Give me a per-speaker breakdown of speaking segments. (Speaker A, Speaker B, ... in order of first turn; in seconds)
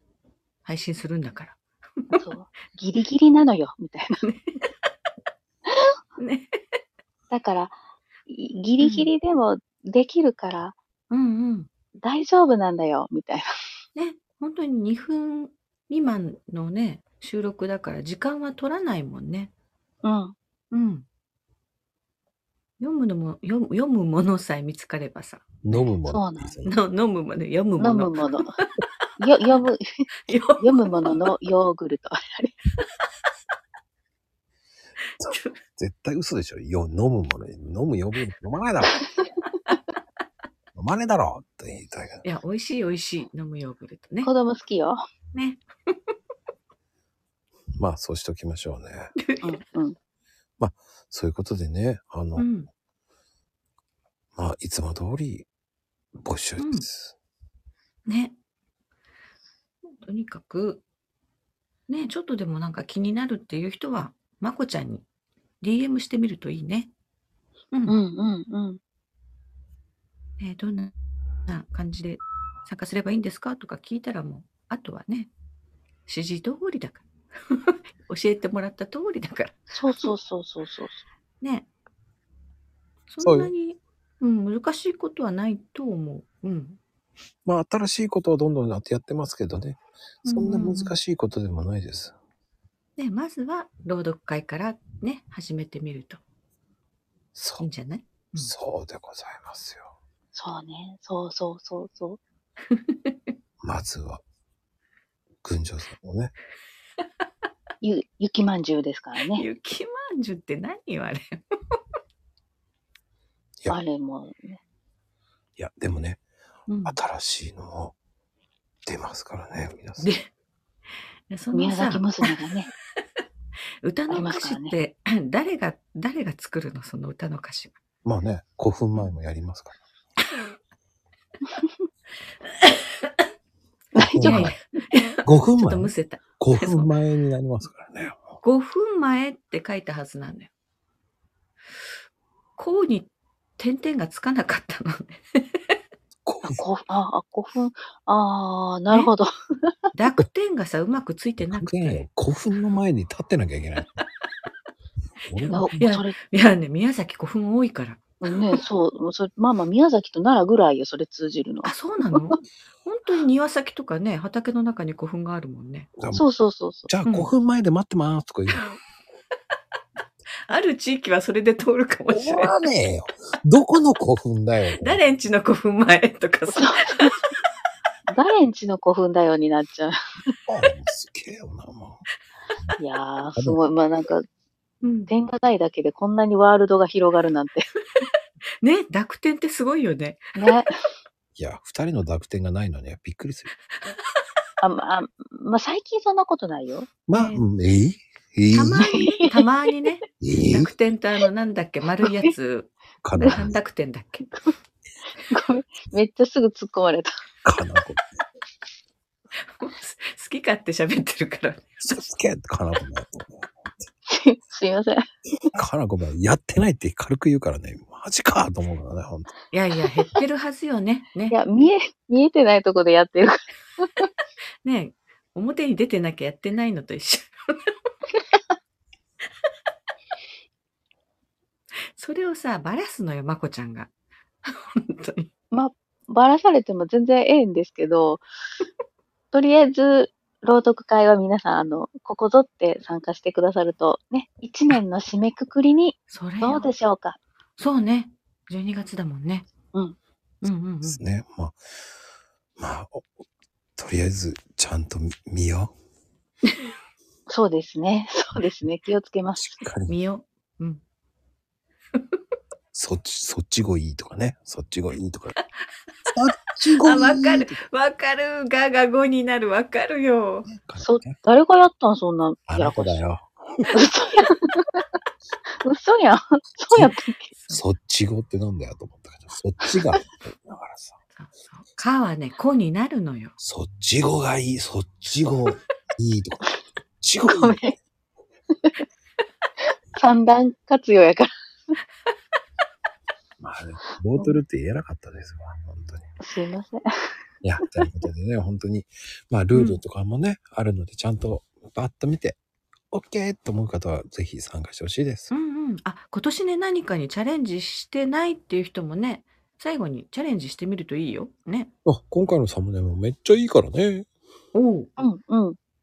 Speaker A: 0.7-2.2, 4.3-4.7, 6.2-6.6, 8.8-9.1, 11.1-11.7, 14.0-19.5, 20.7-21.1, 22.8-25.9, 26.6-28.9, 30.3-31.3, 35.3-35.5, 42.2-44.3, 45.3-46.0, 49.2-49.5, 52.4-52.7, 56.6-56.9, 58.1-58.4, 60.0-60.8, 61.9-65.0, 65.6-66.9, 67.7-68.0, 70.4-70.9, 71.5-75.3, 76.1-80.1, 81.4-81.7, 83.1-86.8, 90.2-91.0, 93.0-96.2, 97.6-98.5, 102.7-103.2, 109.3-111.8, 116.7-117.0, 120.0-120.3, 121.3-122.3, 123.8-127.8, 130.2-130.5, 132.4-133.1, 134.2-136.9, 138.4-140.5, 142.6-145.8, 149.9-152.1, 155.3-158.6, 161.6-165.9, 167.1-167.3, 170.5-172.5, 174.8-177.2, 184.8-185.1, 188.6-190.3, 197.2-197.4, 198.5-202.7, 203.2-204.3, 209.4-212.1, 219.5-221.4, 224.6-227.7, 231.9-233.9, 234.4-235.3, 246.1-246.7, 247.6-249.5, 250.4-251.0, 259.9-260.8, 266.8-270.5, 277.4-277.6, 281.1-283.4, 299.5-299.8, 305.3-311.7, 314.5-314.9
Speaker B: 2.1-4.1, 7.3-10.8, 12.0-13.5, 20.0-20.4, 26.1-26.6, 27.8-28.5, 29.2-30.1, 30.6-32.5, 44.2-45.0, 49.4-50.0, 67.9-68.8, 79.7-81.0, 100.3-102.2, 107.8-109.5, 113.7-114.6, 121.5-122.7, 124.1-124.8, 133.9-134.7, 146.5-149.9, 155.5-156.2, 158.2-162.3, 166.1-166.9, 176.5-177.1, 178.1-179.9, 182.8-184.2, 185.1-187.6, 190.4-190.7, 194.6-196.9, 198.8-199.4, 201.8-202.3, 203.2-203.5, 205.3-207.1, 214.1-215.0, 219.8-220.2, 221.3-224.1, 235.5-238.2, 239.3-247.2, 257.3-259.6, 270.8-273.1, 273.7-274.8, 275.6-277.3, 287.3-287.8, 290.0-291.3, 296.2-296.8, 315.0-315.6
Speaker C: 25.6-26.7, 35.2-39.0, 40.8-42.2, 47.8-49.1, 50.6-52.5, 54.4-55.5, 56.2-57.1, 83.2-83.5, 87.5-92.1, 97.3-97.7, 98.4-99.9, 103.6-104.2, 105.4-106.3, 115.6-116.2, 116.9-118.0, 118.9-120.1, 128.0-129.8, 134.0-134.6, 135.2-138.4, 146.2-146.6, 151.4-154.0, 155.3-155.9, 166.0-166.2, 166.9-168.7, 172.1-175.0, 180.5-182.1, 191.4-193.5, 197.1-199.0, 200.2-200.7, 203.0-203.6, 207.4-208.1, 211.8-213.7, 215.5-219.3, 250.8-251.6, 252.6-253.1, 253.8-255.7, 259.4-260.0, 262.7-265.4, 266.1-267.6, 270.5-271.2, 272.5-273.7, 276.7-276.9, 277.5-281.0, 283.4-286.4, 287.0-287.6, 293.4-296.0, 297.4-302.4, 302.9-305.3, 311.9-314.1